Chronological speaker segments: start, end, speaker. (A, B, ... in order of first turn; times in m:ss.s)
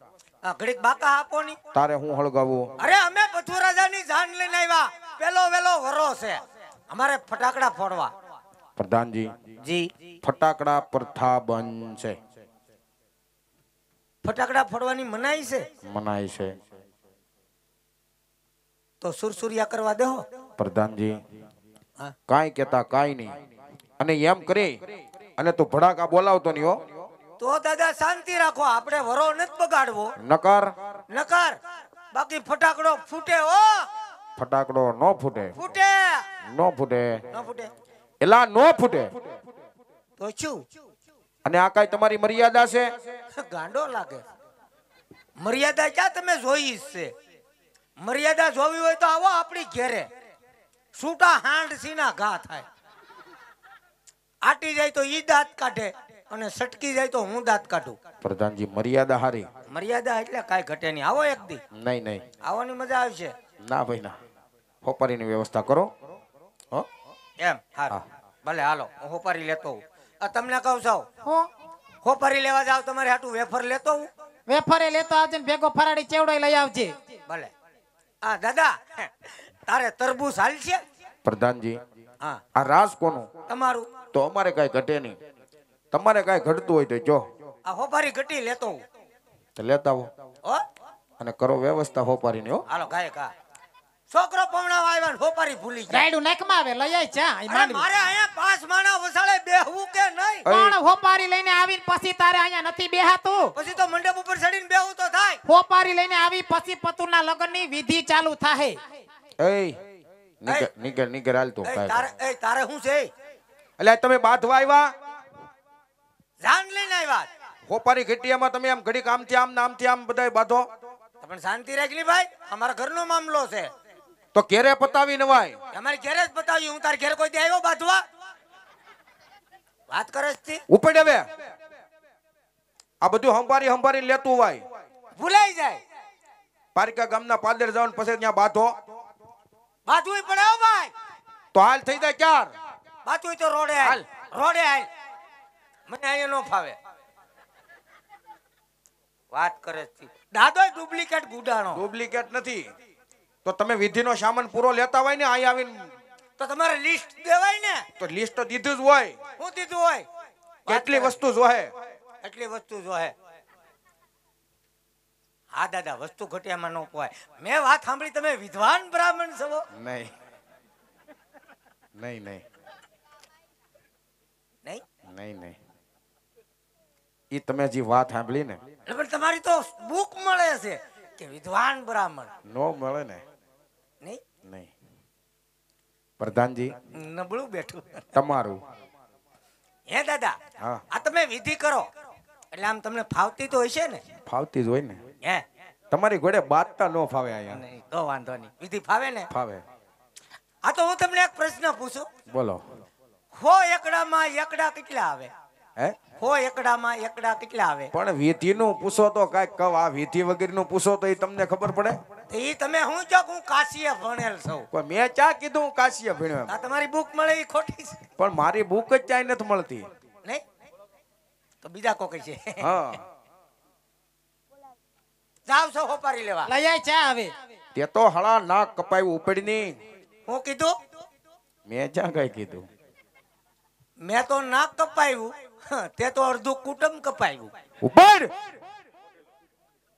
0:00.4-0:01.6 A
0:01.7-0:02.7 B
0:02.8-0:06.4 A
0:06.9-0:08.1 A
0:08.8-0:09.3 B
0:09.6-0:09.9 A
0:10.2-0:12.2 B
0:14.2-0:15.7 A
0:15.8-0:16.6 B
0:19.0-0:20.2 A
0:20.6-0:21.2 B
0:22.3-0:23.4 B
0:24.0-0:27.0 B
0:27.4-0:30.1 A
0:30.2-0:30.8 B
0:31.1-0:31.6 A
0:32.1-0:33.9 A
0:34.4-0:35.5 B
0:35.5-0:36.3 A
0:36.4-0:37.2 B
0:37.3-0:37.7 A
0:38.2-0:39.2 B
0:40.2-0:40.6 A
0:41.4-0:42.9 B
0:43.4-0:44.2 A
0:45.4-0:47.1 A
0:48.0-0:50.1 A
0:50.9-0:52.6 A
0:54.4-0:58.0 A
0:58.2-0:59.5 B
0:59.7-1:01.6 A
1:01.7-1:02.2 B
1:02.4-1:03.3 A
1:03.6-1:04.2 B
1:04.8-1:05.9 B
1:07.4-1:11.1 A
1:11.2-1:11.5 C
1:12.0-1:14.1 A
1:14.5-1:17.0 C
1:18.2-1:20.8 A
1:21.2-1:21.8 B
1:22.5-1:23.3 B
1:23.5-1:23.9 A
1:24.1-1:25.2 B
1:25.9-1:27.2 B
1:27.6-1:28.8 A
1:29.6-1:30.1 B
1:31.2-1:32.6 B
1:32.7-1:33.3 A
1:34.1-1:36.1 A
1:35.9-1:37.8 C
1:37.5-1:40.5 A
1:40.4-1:40.8 B
1:40.5-1:43.5 C
1:43.5-1:45.4 A
1:45.4-1:48.8 C
1:49.4-1:49.8 B
1:50.4-1:52.1 B
1:51.6-1:53.1 A
1:53.8-1:54.9 B
1:56.4-1:57.3 A
1:57.7-2:00.7 B
2:01.2-2:03.7 A
2:04.3-2:05.6 B
2:05.7-2:08.0 A
2:09.9-2:10.6 A
2:10.7-2:11.3 B
2:13.0-2:14.6 B
2:15.2-2:15.8 A
2:16.7-2:18.7 B
2:19.8-2:20.9 A
2:21.5-2:22.5 B
2:23.0-2:24.9 A
2:25.9-2:26.8 A
2:29.3-2:31.8 A
2:31.7-2:32.7 B
2:33.4-2:35.9 B
2:36.4-2:37.9 A
2:38.0-2:39.2 B
2:39.4-2:40.0 A
2:40.6-2:41.2 A
2:40.7-2:41.7 B
2:42.2-2:43.1 A
2:45.5-2:49.6 A
2:49.7-2:50.1 B
2:52.0-2:52.4 B
2:55.1-2:55.6 B
2:57.3-2:58.6 B
2:58.8-3:02.3 A
3:02.4-3:03.2 B
3:04.4-3:04.7 B
3:06.2-3:06.7 B
3:06.9-3:08.0 A
3:08.1-3:08.6 B
3:09.9-3:10.3 A
3:10.9-3:11.9 A
3:12.5-3:14.0 A
3:14.2-3:15.0 B
3:15.9-3:17.6 B
3:17.5-3:19.3 A
3:19.3-3:19.6 B
3:20.6-3:22.1 A
3:22.3-3:22.6 B
3:23.4-3:25.3 A
3:26.2-3:27.9 A
3:27.9-3:32.0 B
3:32.3-3:34.7 A
3:34.7-3:36.5 B
3:36.5-3:38.0 A
3:38.2-3:39.9 B
3:41.6-3:42.7 A
3:42.6-3:43.0 B
3:45.5-3:46.5 A
3:46.4-3:47.3 C
3:47.7-3:49.8 B
3:50.3-3:50.7 A
3:51.6-3:52.7 B
3:54.0-3:57.5 A
3:57.8-3:58.3 B